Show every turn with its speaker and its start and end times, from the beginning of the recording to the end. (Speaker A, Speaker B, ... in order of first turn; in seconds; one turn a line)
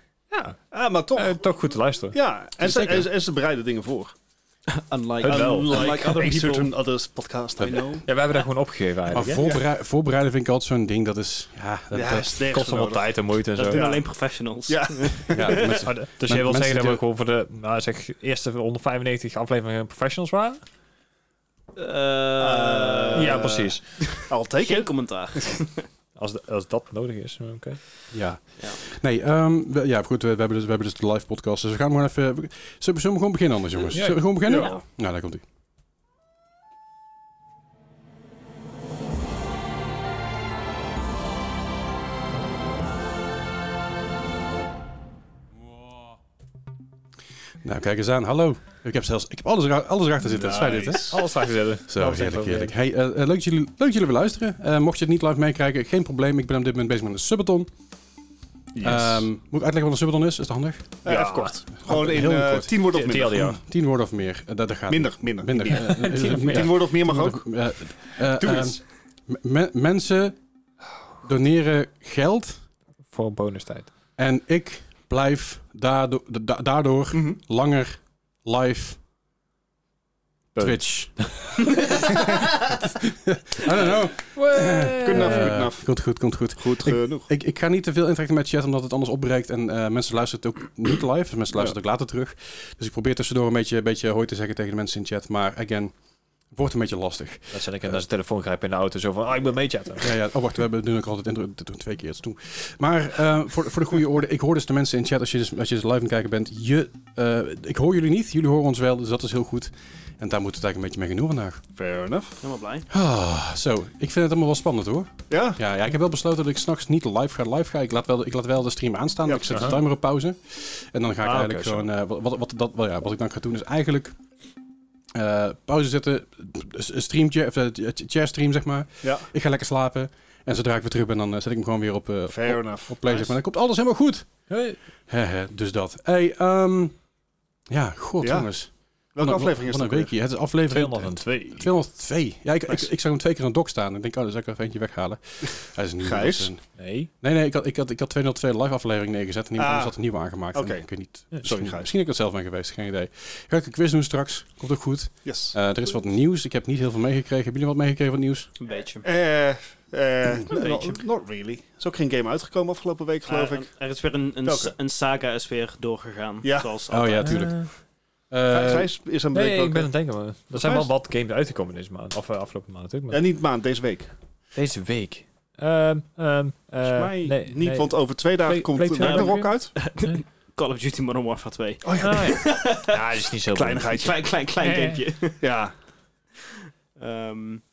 Speaker A: 0.3-0.6
Speaker B: 0.7-1.4
Speaker A: 1.1-2.1
Speaker B: 2.1-4.1
Speaker C: 2.6-3.1
Speaker D: 4.7-6.7
Speaker A: 5.2-6.1
Speaker B: 5.2-8.1
Speaker C: 7.6-8.0
Speaker A: 8.1-9.5
Speaker C: 9.1-12.4
Speaker B: 11.9-13.1
Speaker A: 12.4-13.9
Speaker D: 13.6-15.8
Speaker B: 13.6-14.1
Speaker B: 14.7-15.6
Speaker C: 15.3-17.0
Speaker A: 15.5-20.6
Speaker D: 21.8-25.9
Speaker B: 22.4-24.9
Speaker A: 23.1-24.0
Speaker A: 26.2-27.8
Speaker C: 28.1-35.4
Speaker A: 33.9-34.7
Speaker D: 34.5-34.8
Speaker C: 47.6-51.1
Speaker B: 50.2-51.3
Speaker A: 51.0-52.7
Speaker C: 51.9-57.7
Speaker B: 58.7-59.3
Speaker C: 58.8-61.0
Speaker B: 61.0-63.4
Speaker A: 61.0-61.7
Speaker C: 61.8-62.8
Speaker A: 62.9-63.6
Speaker C: 63.4-70.4
Speaker B: 64.9-67.4
Speaker A: 65.7-66.7
Speaker B: 68.4-68.7
Speaker C: 71.2-72.6
Speaker A: 73.1-73.9
Speaker C: 74.2-79.0
Speaker B: 77.1-77.4
Speaker C: 80.5-81.3
Speaker A: 80.5-81.3
Speaker D: 81.8-82.5
Speaker C: 82.1-95.9
Speaker A: 84.3-85.6
Speaker B: 85.0-85.9
Speaker B: 86.6-87.3
Speaker C: 96.5-98.0
Speaker A: 97.5-100.1
Speaker C: 100.0-111.6
Speaker B: 111.7-112.4
Speaker D: 112.4-112.8
Speaker C: 112.9-124.2
Speaker B: 115.3-115.6
Speaker B: 119.2-119.8
Speaker A: 121.2-121.8
Speaker C: 125.1-134.5
Speaker B: 132.3-133.3
Speaker A: 134.5-134.8
Speaker C: 135.1-136.9
Speaker C: 137.7-146.7
Speaker B: 138.2-138.5
Speaker B: 139.1-140.1
Speaker A: 140.7-141.7
Speaker B: 146.0-146.5
Speaker A: 146.8-147.1
Speaker C: 147.2-158.5
Speaker B: 149.6-150.0
Speaker B: 150.5-150.9
Speaker B: 151.4-151.9
Speaker B: 155.2-155.6
Speaker D: 158.6-159.1
Speaker B: 159.0-163.7
Speaker D: 160.5-161.0
Speaker D: 163.3-167.4
Speaker B: 164.4-164.7
Speaker B: 166.4-166.7
Speaker C: 166.9-167.7
Speaker A: 167.2-167.7
Speaker C: 168.3-168.9
Speaker B: 168.5-169.9
Speaker A: 169.3-173.2
Speaker B: 170.5-170.9
Speaker B: 173.1-174.1
Speaker A: 174.5-180.2
Speaker D: 176.8-177.3
Speaker B: 177.4-179.7
Speaker D: 179.0-183.0
Speaker B: 181.8-182.3
Speaker A: 182.0-184.0
Speaker B: 183.5-184.2
Speaker D: 183.9-185.4
Speaker A: 184.6-185.0
Speaker B: 185.4-185.7
Speaker D: 186.4-187.6